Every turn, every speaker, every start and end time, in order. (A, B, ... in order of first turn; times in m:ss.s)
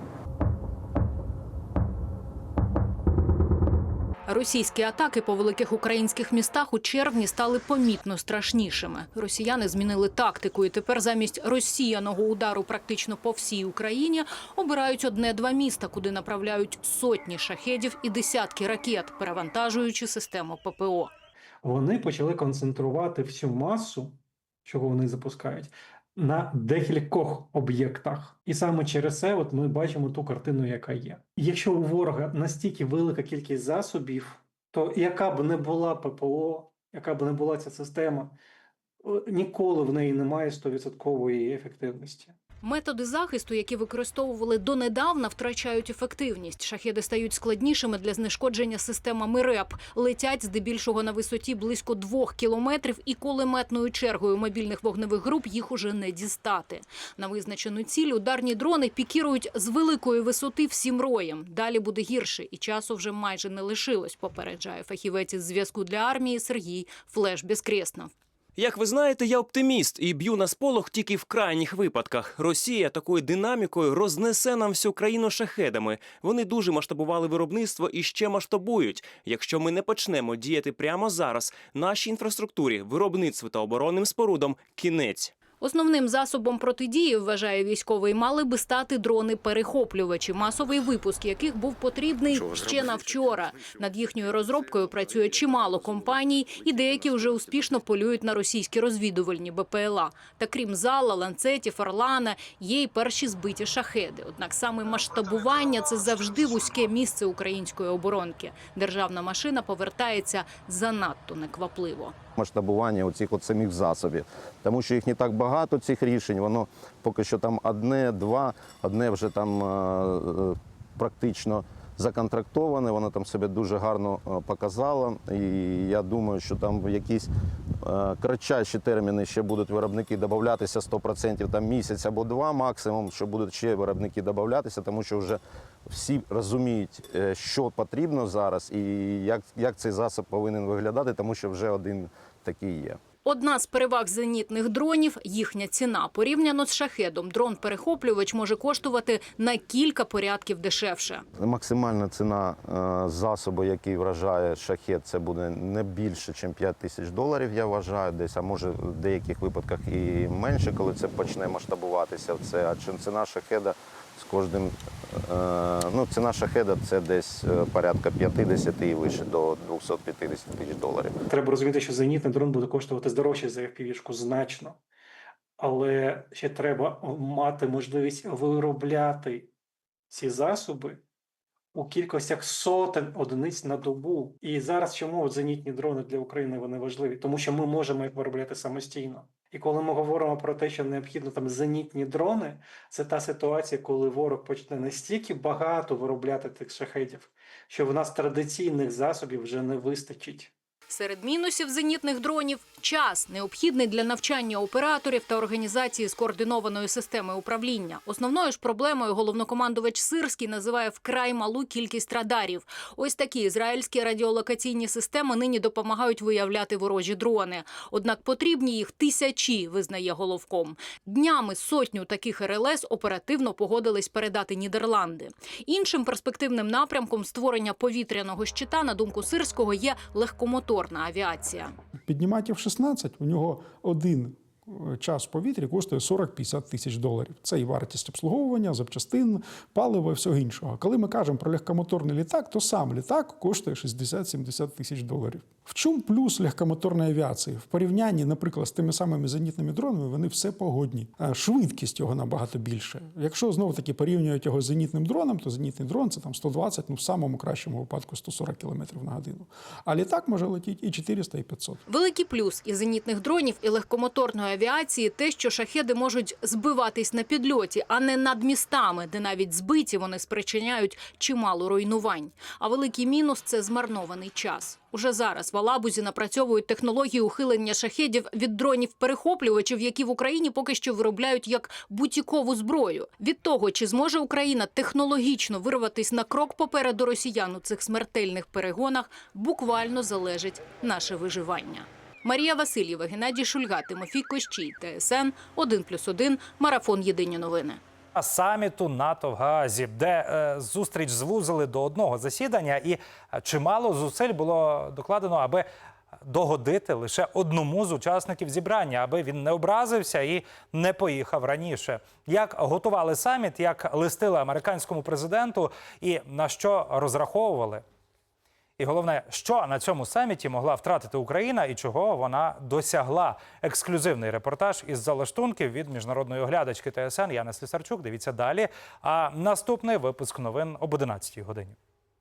0:04.3-0:21.1 A
0:21.6-0:38.3 B
0:39.0-0:42.3 B
0:42.6-1:08.1 A
1:08.6-1:25.3 C
1:25.6-1:52.1 A
1:52.4-2:07.3 D
2:07.8-2:23.0 D
2:23.2-2:31.2 A
2:31.4-2:51.1 D
2:51.3-2:54.8 B
2:55.6-2:59.5 B
3:00.1-3:01.0 B
3:01.7-3:20.5 B
3:20.9-3:51.7 A
3:52.0-4:21.8 E
4:21.9-4:57.8 A
4:58.1-5:05.7 F
5:06.2-5:17.8 F
5:18.8-5:31.8 F